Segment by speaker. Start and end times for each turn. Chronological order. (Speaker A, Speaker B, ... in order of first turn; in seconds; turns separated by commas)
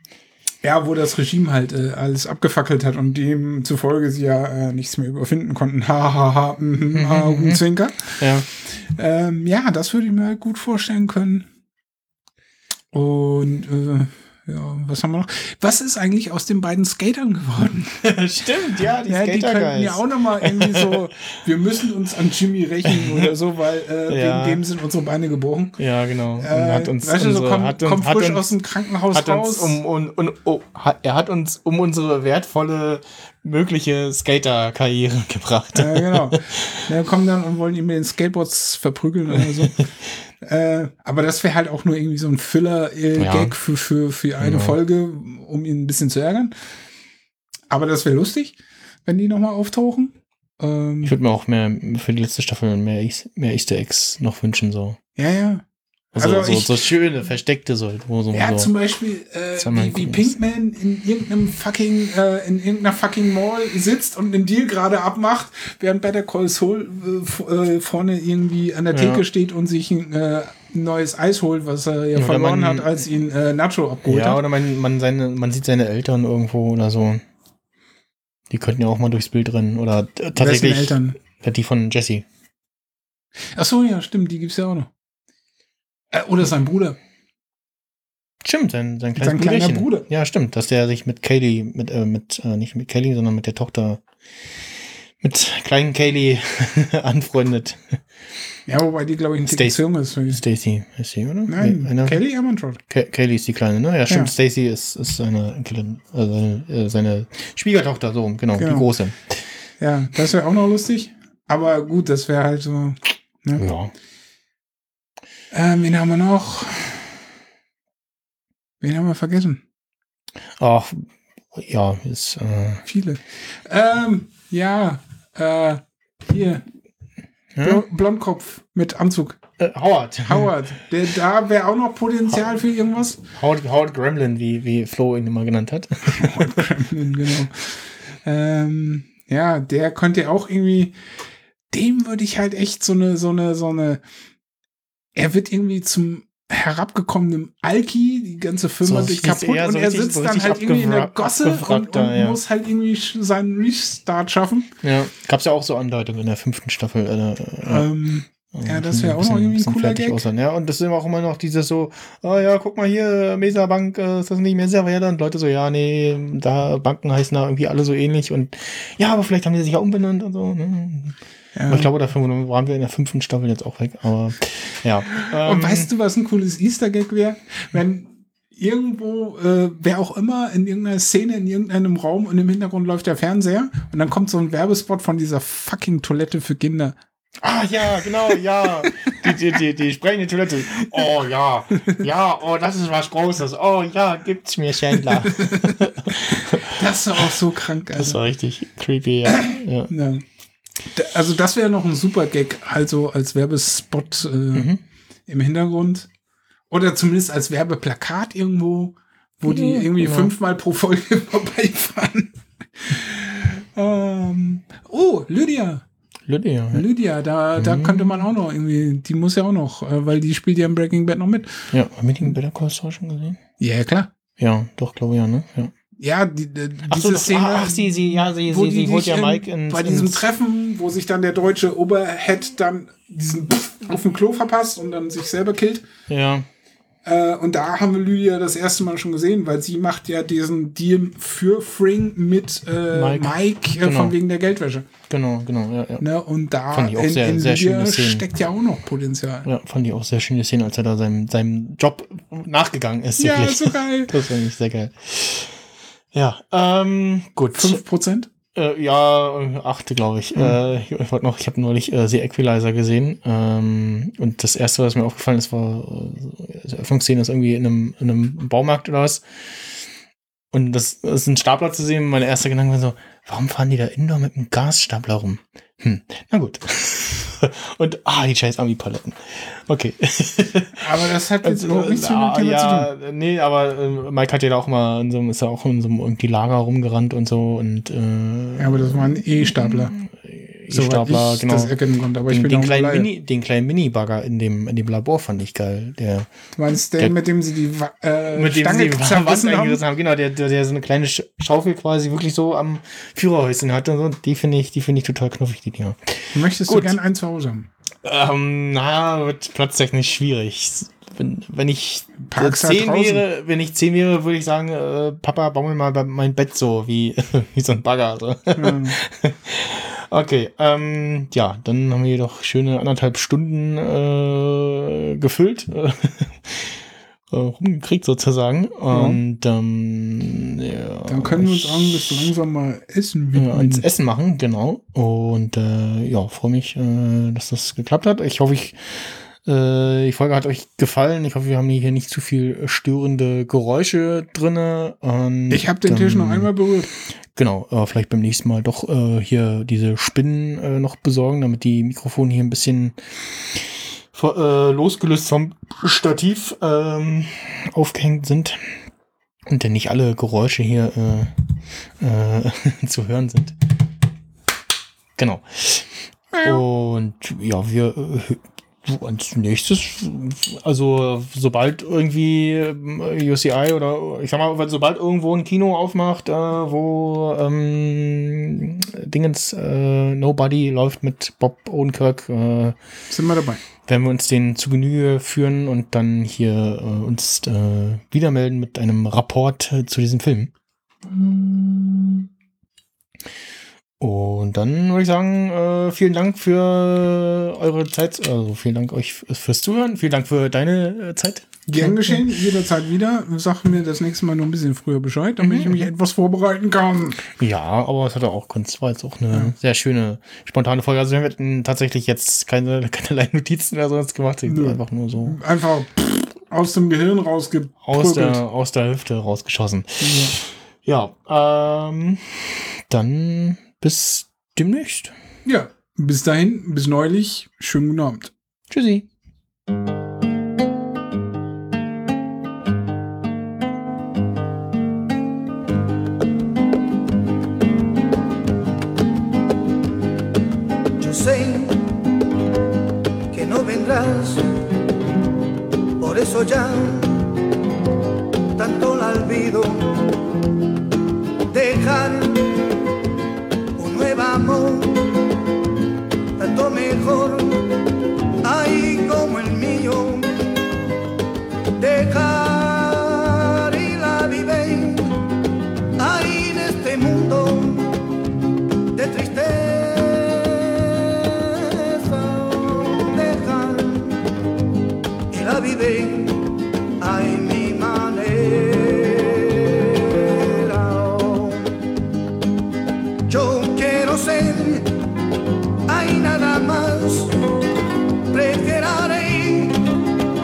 Speaker A: 0.6-11.5, Speaker B: 6.9-7.6, Speaker B: 8.1-8.5, Speaker A: 12.9-18.0, Speaker B: 18.0-21.0, Speaker A: 19.1-25.7, Speaker B: 22.9-23.3, Speaker B: 24.1-24.6, Speaker B: 25.8-28.5, Speaker A: 26.4-29.8, Speaker B: 29.1-36.8, Speaker A: 35.7-39.8, Speaker B: 39.4-39.8, Speaker A: 40.4-46.5, Speaker B: 43.2-43.5, Speaker B: 44.4-44.8, Speaker A: 47.7-51.1, Speaker B: 51.0-55.0, Speaker A: 55.2-55.6, Speaker B: 56.1-58.7, Speaker A: 56.1-56.8, Speaker A: 58.3-74.4, Speaker B: 59.6-60.4, Speaker B: 68.9-69.2, Speaker B: 72.2-72.9, Speaker B: 74.0-77.2, Speaker B: 78.5-82.2, Speaker A: 80.4-81.2, Speaker A: 83.5-84.9, Speaker A: 86.1-87.0, Speaker B: 88.4-94.0, Speaker A: 89.2-90.0, Speaker B: 95.2-98.0, Speaker A: 98.7-100.4, Speaker B: 99.5-102.2, Speaker A: 101.5-102.8, Speaker B: 102.9-109.4, Speaker A: 108.6-108.9, Speaker A: 109.8-113.7, Speaker B: 113.6-113.9, Speaker A: 115.5-117.1, Speaker A: 118.8-119.6, Speaker B: 120.6-122.8, Speaker A: 122.8-126.6, Speaker B: 127.5-127.8, Speaker A: 127.6-129.4, Speaker B: 129.6-130.5, Speaker A: 130.2-133.2, Speaker B: 133.3-136.6, Speaker A: 136.1-140.9, Speaker A: 141.7-144.0, Speaker A: 145.1-154.7, Speaker B: 148.8-152.4, Speaker B: 154.8-157.9, Speaker A: 157.6-160.2, Speaker B: 158.5-171.2, Speaker A: 171.5-171.9, Speaker B: 171.7-175.9, Speaker A: 175.2-186.9, Speaker B: 187.4-197.3, Speaker A: 188.8-189.1, Speaker A: 195.2-195.7, Speaker A: 196.3-198.2, Speaker B: 197.9-199.9, Speaker A: 199.3-200.2, Speaker A: 200.9-204.7, Speaker B: 204.5-204.8, Speaker A: 205.3-206.1, Speaker A: 206.7-215.8, Speaker B: 209.5-210.3, Speaker B: 216.3-216.8, Speaker A: 216.7-221.6, Speaker B: 217.6-218.3, Speaker B: 221.7-223.4, Speaker A: 223.6-224.1, Speaker B: 224.4-225.7, Speaker A: 226.0-235.8, Speaker B: 226.9-230.2, Speaker B: 236.1-236.5, Speaker A: 237.0-244.9, Speaker B: 242.9-244.1, Speaker B: 245.1-246.0, Speaker A: 246.0-249.5, Speaker B: 246.7-248.2, Speaker B: 249.4-255.6, Speaker A: 253.2-254.1, Speaker B: 256.1-257.8, Speaker A: 257.5-258.3, Speaker B: 258.5-269.2, Speaker B: 270.5-280.9, Speaker A: 280.8-282.9, Speaker B: 281.4-291.7, Speaker A: 288.6-289.9, Speaker A: 290.7-293.1, Speaker B: 292.3-296.3, Speaker A: 296.6-299.8, Speaker B: 298.3-306.9, Speaker A: 306.3-307.7, Speaker B: 308.0-326.8, Speaker A: 312.2-313.2, Speaker A: 318.5-318.9, Speaker B: 327.3-332.2, Speaker A: 328.9-329.2, Speaker A: 331.1-333.8, Speaker B: 333.4-346.5, Speaker A: 345.5-346.9, Speaker B: 347.3-358.8, Speaker B: 359.5-361.3, Speaker B: 362.0-363.5, Speaker B: 365.2-382.8, Speaker A: 366.4-366.6, Speaker A: 383.1-383.6, Speaker B: 383.9-390.5, Speaker B: 391.0-392.3, Speaker B: 394.0-402.4, Speaker A: 401.7-407.2, Speaker B: 405.4-405.9, Speaker B: 407.4-415.4, Speaker A: 414.4-418.4, Speaker B: 417.8-425.1, Speaker A: 420.0-420.4, Speaker A: 425.4-428.3, Speaker B: 428.7-429.1, Speaker C: 441.0-441.9, Speaker C: 443.3-444.5, Speaker C: 446.0-447.3, Speaker C: 448.5-450.1, Speaker C: 451.5-452.6, Speaker C: 453.8-455.2, Speaker C: 456.4-457.7, Speaker C: 458.4-460.4, Speaker C: 461.8-465.2, Speaker C: 466.0-468.0, Speaker C: 468.9-474.2, Speaker C: 475.3-481.8, Speaker C: 483.2-484.9, Speaker C: 485.9-487.4, Speaker C: 488.3-489.9